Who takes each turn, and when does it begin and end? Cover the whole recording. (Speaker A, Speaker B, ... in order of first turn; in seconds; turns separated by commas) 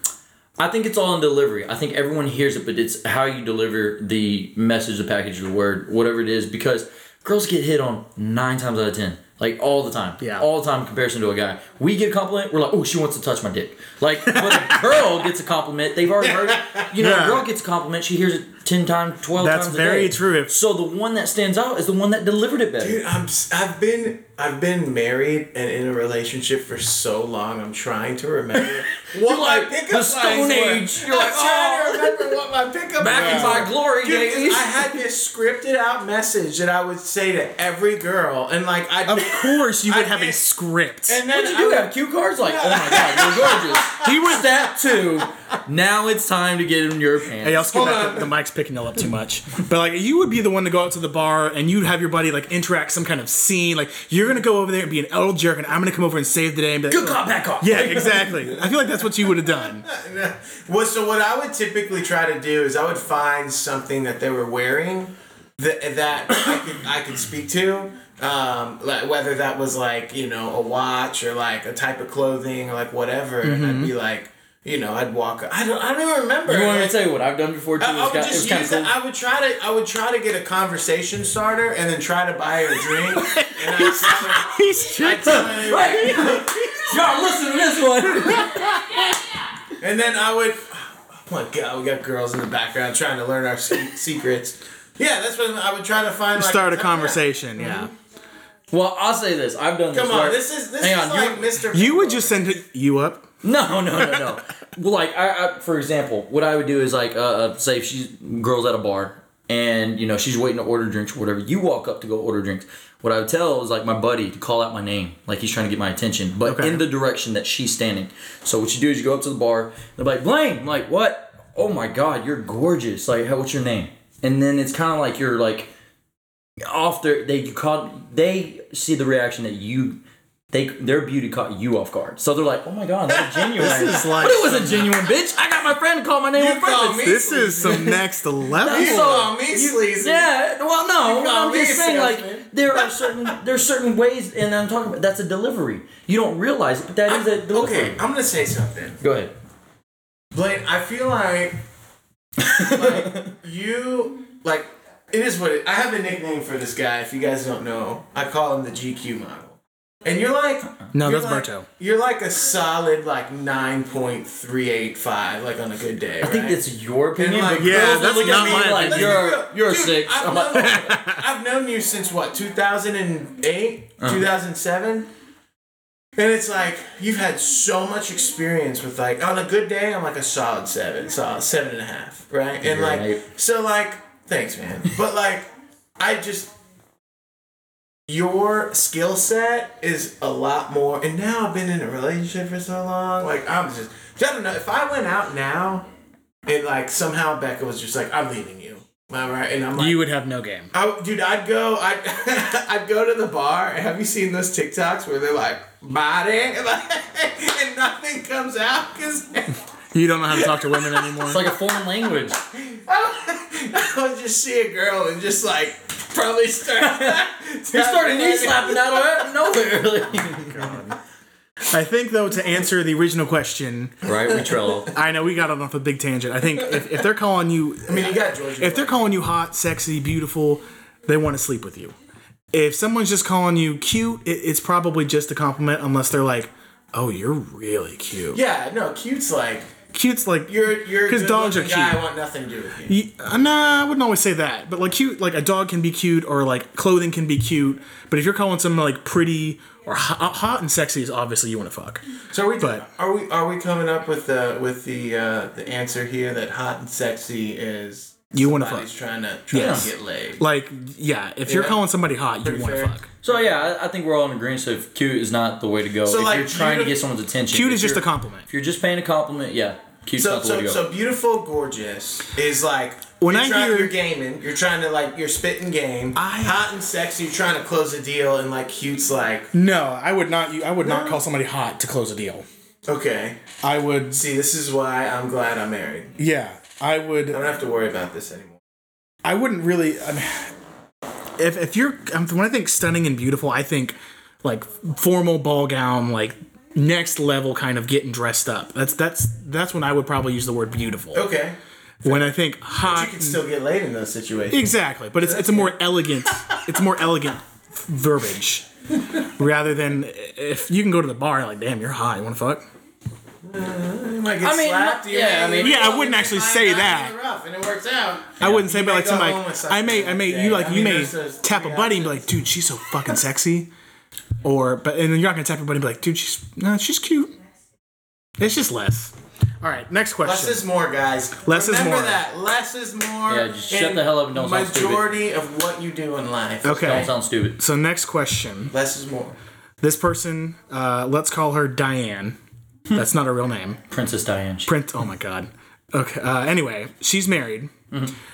Speaker A: 0.6-23.0, Speaker B: 10.2-10.5, Speaker B: 14.4-14.8, Speaker C: 16.2-16.9, Speaker B: 17.0-17.5, Speaker B: 19.4-20.5, Speaker C: 22.8-40.4, Speaker A: 29.0-32.3, Speaker A: 33.0-34.9, Speaker B: 33.1-33.6, Speaker B: 39.1-41.2, Speaker C: 41.1-44.5, Speaker A: 41.3-47.7, Speaker B: 47.4-59.9, Speaker C: 47.6-48.3, Speaker A: 56.9-58.4, Speaker C: 59.4-77.0, Speaker B: 73.4-73.9, Speaker A: 76.5-78.9, Speaker C: 77.8-86.7, Speaker B: 83.1-86.5, Speaker A: 85.2-88.8, Speaker B: 88.1-89.0, Speaker C: 89.8-97.9, Speaker B: 96.3-97.9, Speaker A: 98.7-101.5, Speaker C: 99.9-102.5, Speaker B: 101.7-103.3, Speaker A: 103.4-125.7, Speaker B: 104.0-104.3, Speaker B: 116.5-116.8, Speaker A: 126.7-130.0, Speaker A: 130.5-137.9, Speaker C: 133.1-134.4, Speaker B: 133.6-134.9, Speaker C: 136.3-138.0, Speaker B: 137.0-139.3, Speaker A: 138.6-148.0, Speaker C: 138.6-140.3, Speaker C: 140.9-143.3, Speaker C: 147.1-149.0, Speaker A: 149.0-149.3, Speaker C: 150.3-151.6, Speaker A: 152.4-153.3, Speaker C: 152.4-166.6, Speaker B: 160.9-161.7, Speaker A: 166.2-170.9, Speaker C: 167.2-175.1, Speaker B: 167.6-169.3, Speaker B: 170.5-171.2, Speaker A: 174.0-174.3, Speaker C: 176.2-185.5, Speaker A: 182.6-183.2, Speaker C: 186.0-186.5, Speaker C: 188.1-195.8, Speaker C: 196.5-200.0, Speaker B: 199.8-200.7, Speaker C: 200.7-209.6, Speaker B: 209.9-211.5, Speaker C: 210.3-211.2, Speaker A: 211.2-212.4, Speaker C: 212.5-219.3, Speaker A: 216.8-220.7, Speaker B: 220.3-221.0, Speaker B: 221.7-224.1, Speaker A: 224.0-224.9, Speaker B: 224.9-231.9, Speaker C: 227.9-229.1, Speaker B: 232.5-238.4, Speaker C: 238.3-239.7, Speaker B: 239.9-242.0, Speaker C: 240.5-243.0, Speaker B: 242.9-252.0, Speaker C: 252.3-260.4, Speaker B: 252.6-252.8, Speaker B: 258.3-258.9, Speaker B: 259.5-263.1, Speaker A: 259.5-259.9, Speaker C: 261.5-261.8, Speaker C: 262.4-263.4, Speaker A: 263.2-270.8, Speaker C: 266.1-267.0, Speaker B: 267.5-268.5, Speaker C: 270.2-279.5, Speaker B: 273.2-273.9, Speaker B: 276.1-276.6, Speaker B: 279.5-282.4, Speaker C: 280.8-281.2, Speaker C: 282.9-283.6, Speaker B: 283.6-284.2, Speaker C: 284.1-286.2, Speaker B: 286.2-287.5, Speaker C: 287.3-288.6, Speaker B: 289.2-290.5, Speaker B: 291.4-301.3, Speaker C: 301.1-305.8, Speaker B: 302.0-303.4, Speaker B: 304.5-308.7, Speaker B: 309.2-312.6, Speaker C: 313.4-322.4, Speaker A: 314.4-315.9, Speaker B: 315.6-317.1, Speaker B: 318.4-323.7, Speaker B: 324.4-327.3, Speaker B: 328.4-330.7, Speaker C: 330.2-337.1, Speaker B: 331.4-332.2, Speaker A: 333.3-335.1, Speaker B: 336.6-338.7, Speaker A: 336.8-337.6, Speaker C: 338.7-339.4, Speaker B: 339.8-342.4, Speaker B: 342.9-343.8, Speaker A: 343.9-344.7, Speaker B: 344.7-347.7